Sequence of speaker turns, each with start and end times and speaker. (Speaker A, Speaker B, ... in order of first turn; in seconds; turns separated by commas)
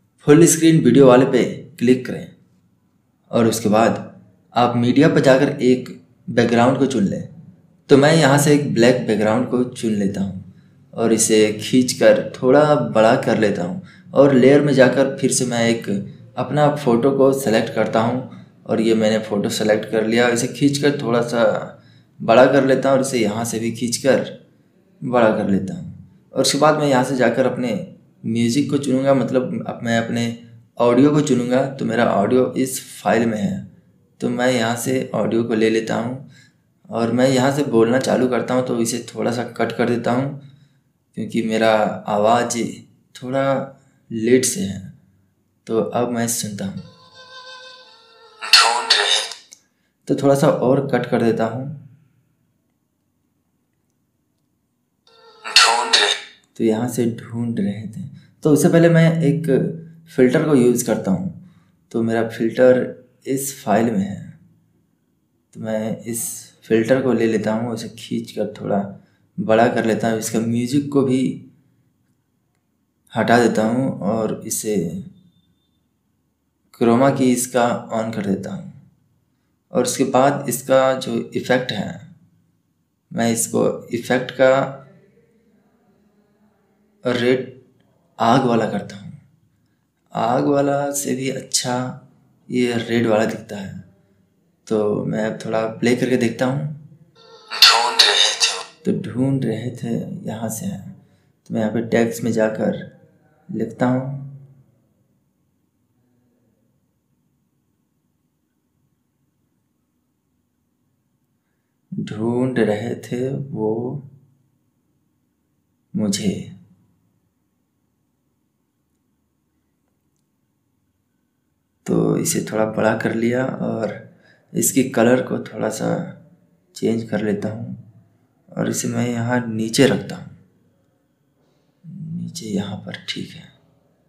Speaker A: 0.2-2.3, Speaker A: 3.3-7.3, Speaker A: 7.9-24.3, Speaker A: 25.0-33.6, Speaker A: 34.2-36.2, Speaker A: 36.9-40.4, Speaker A: 41.1-44.9, Speaker A: 45.6-46.9, Speaker B: 48.4-49.3, Speaker A: 50.1-51.8, Speaker B: 55.4-56.2, Speaker A: 56.5-61.4, Speaker A: 61.9-64.4, Speaker A: 65.5-71.4, Speaker A: 73.1-75.1, Speaker A: 76.7-78.8, Speaker A: 79.7-82.1, Speaker A: 83.1-84.8, Speaker A: 87.0-87.6, Speaker A: 88.2-89.2, Speaker A: 90.1-93.8, Speaker A: 94.6-96.8, Speaker B: 97.5-98.6, Speaker A: 98.8-102.9, Speaker A: 103.5-104.4, Speaker A: 112.0-114.0, Speaker A: 115.9-116.5, Speaker A: 121.8-124.0, Speaker A: 124.5-126.2, Speaker A: 126.7-127.8, Speaker A: 128.5-130.3, Speaker A: 131.8-133.5